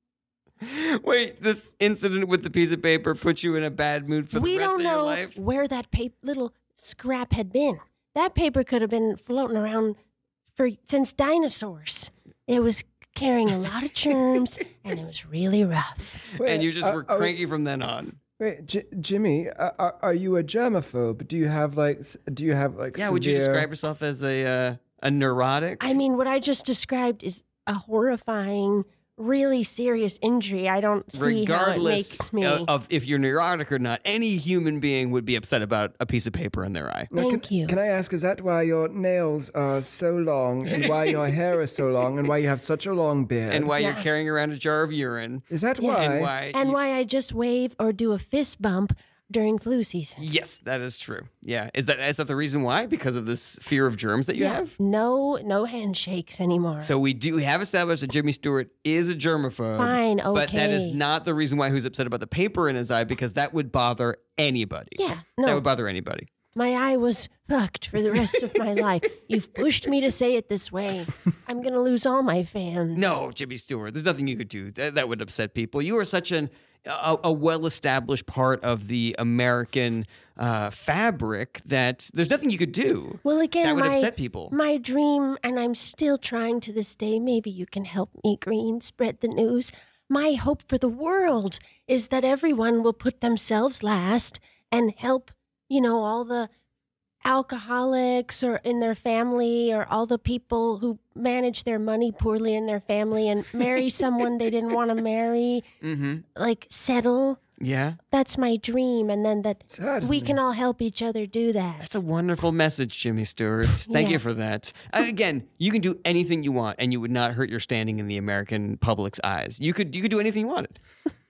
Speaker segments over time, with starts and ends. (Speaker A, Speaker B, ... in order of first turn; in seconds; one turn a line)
Speaker A: 0.6-5.4
Speaker B: 4.3-9.9
Speaker B: 10.6-16.2
Speaker A: 16.4-18.2
Speaker C: 16.4-17.4
Speaker C: 18.4-23.7
Speaker A: 22.9-25.9
Speaker B: 25.8-32.7
Speaker A: 31.1-37.1
Speaker C: 37.1-43.7
Speaker B: 37.1-37.8
Speaker A: 40.7-41.1
Speaker A: 43.5-46.8
Speaker B: 43.8-44.0
Speaker C: 45.5-46.3
Speaker B: 45.8-50.2
Speaker A: 50.2-54.7
Speaker B: 54.3-56.9
Speaker A: 56.8-66.3
Speaker B: 59.8-61.0
Speaker B: 65.0-65.6
Speaker B: 66.5-73.2
Speaker A: 72.9-84.5
Speaker B: 83.2-96.5
Speaker B: 97.2-105.6
Speaker A: 105.8-106.2
Speaker B: 106.3-107.4
Speaker A: 107.6-108.0
Speaker B: 108.1-111.9
Speaker C: 109.7-110.4
Speaker A: 111.8-120.8
Speaker B: 113.9-114.2